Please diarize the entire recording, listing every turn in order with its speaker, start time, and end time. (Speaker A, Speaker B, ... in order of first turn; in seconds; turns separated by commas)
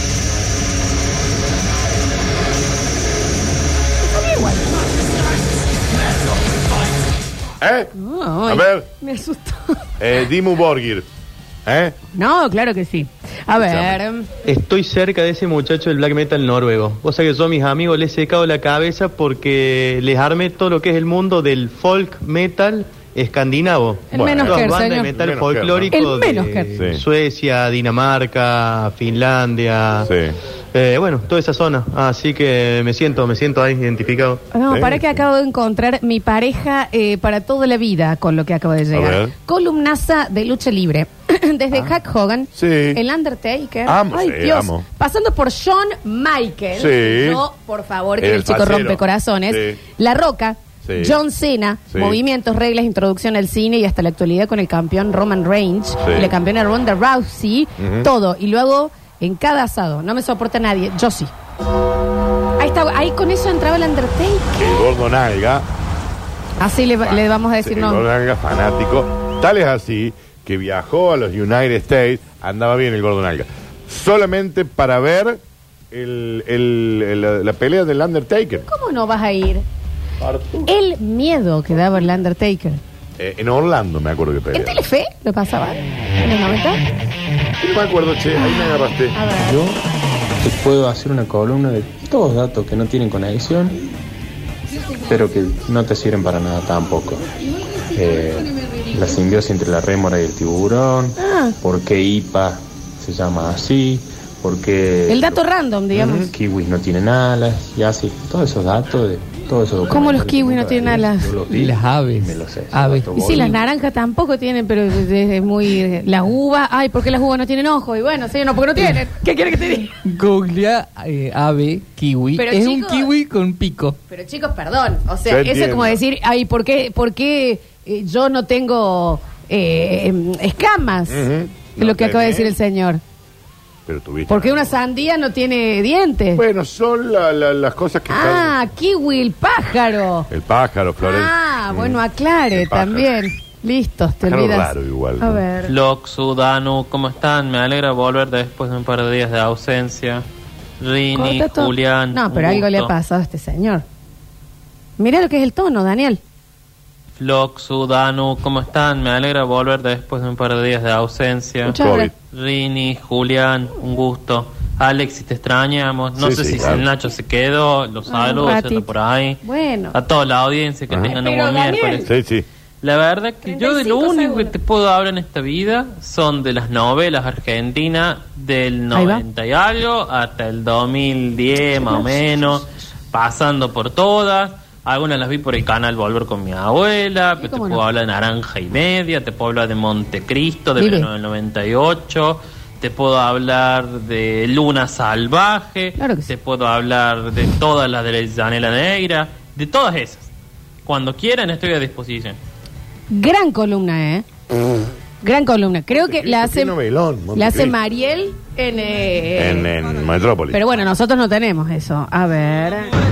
Speaker A: 4.1-4.6, Speaker B: 7.6-7.9, Speaker A: 7.9-9.8, Speaker B: 8.5-8.8, Speaker B: 10.0-11.1, Speaker B: 11.7-11.9, Speaker A: 12.1-14.3, Speaker B: 13.6-14.0, Speaker C: 14.4-30.1, Speaker A: 24.1-25.1, Speaker B: 24.1-25.9, Speaker A: 25.9-26.7, Speaker B: 26.8-27.0, Speaker B: 30.1-30.4, Speaker C: 30.7-34.5, Speaker A: 34.5-61.3, Speaker B: 34.7-35.2, Speaker B: 38.9-39.3, Speaker B: 42.5-43.0, Speaker B: 43.9-44.8, Speaker B: 46.8-47.4, Speaker B: 48.2-49.8, Speaker B: 50.8-51.1, Speaker B: 51.9-52.2, Speaker B: 56.0-56.3, Speaker B: 57.8-58.1, Speaker A: 62.6-64.7, Speaker B: 64.6-65.7, Speaker A: 66.6-68.0, Speaker B: 67.0-75.4, Speaker B: 75.9-78.7, Speaker A: 78.7-79.6, Speaker B: 80.2-80.7, Speaker A: 80.7-82.8, Speaker B: 83.2-84.8, Speaker A: 84.5-86.8, Speaker B: 87.6-89.2, Speaker A: 88.5-89.6, Speaker D: 89.4-89.8, Speaker D: 90.4-93.8, Speaker D: 95.0-97.2, Speaker A: 97.6-98.2, Speaker D: 97.9-105.4, Speaker A: 101.2-101.5, Speaker A: 105.1-106.3, Speaker B: 105.9-106.3, Speaker D: 106.3-113.6, Speaker A: 109.9-111.3, Speaker E: 111.5-113.5, Speaker A: 113.1-119.9, Speaker E: 120.0-124.0, Speaker A: 122.3-123.1, Speaker A: 124.1-131.2, Speaker B: 125.3-126.0, Speaker B: 131.1-132.5, Speaker A: 131.8-133.0, Speaker B: 133.9-134.7, Speaker A: 134.3-136.4, Speaker B: 136.3-138.6, Speaker A: 138.1-140.3, Speaker B: 140.3-142.0, Speaker A: 141.0-145.7, Speaker B: 142.5-143.1, Speaker B: 144.2-145.4, Speaker F: 145.7-150.2, Speaker F: 150.8-152.9, Speaker A: 151.1-153.8, Speaker A: 155.0-156.2, Speaker F: 157.2-161.8, Speaker A: 161.7-162.1, Speaker B: 161.7-162.1, Speaker F: 162.3-169.4, Speaker B: 166.2-166.8, Speaker A: 168.1-169.9, Speaker F: 169.9-172.1, Speaker A: 171.1-172.1, Speaker B: 172.1-172.4, Speaker F: 172.8-200.3, Speaker A: 173.4-174.5, Speaker A: 178.9-179.2, Speaker A: 181.8-182.6, Speaker A: 187.4-187.8, Speaker A: 190.8-191.1, Speaker A: 196.0-196.3, Speaker F: 200.8-202.4, Speaker A: 203.1-204.2, Speaker A: 205.2-206.7, Speaker B: 205.9-207.8, Speaker A: 207.3-209.7, Speaker B: 209.3-210.6, Speaker A: 210.5-212.9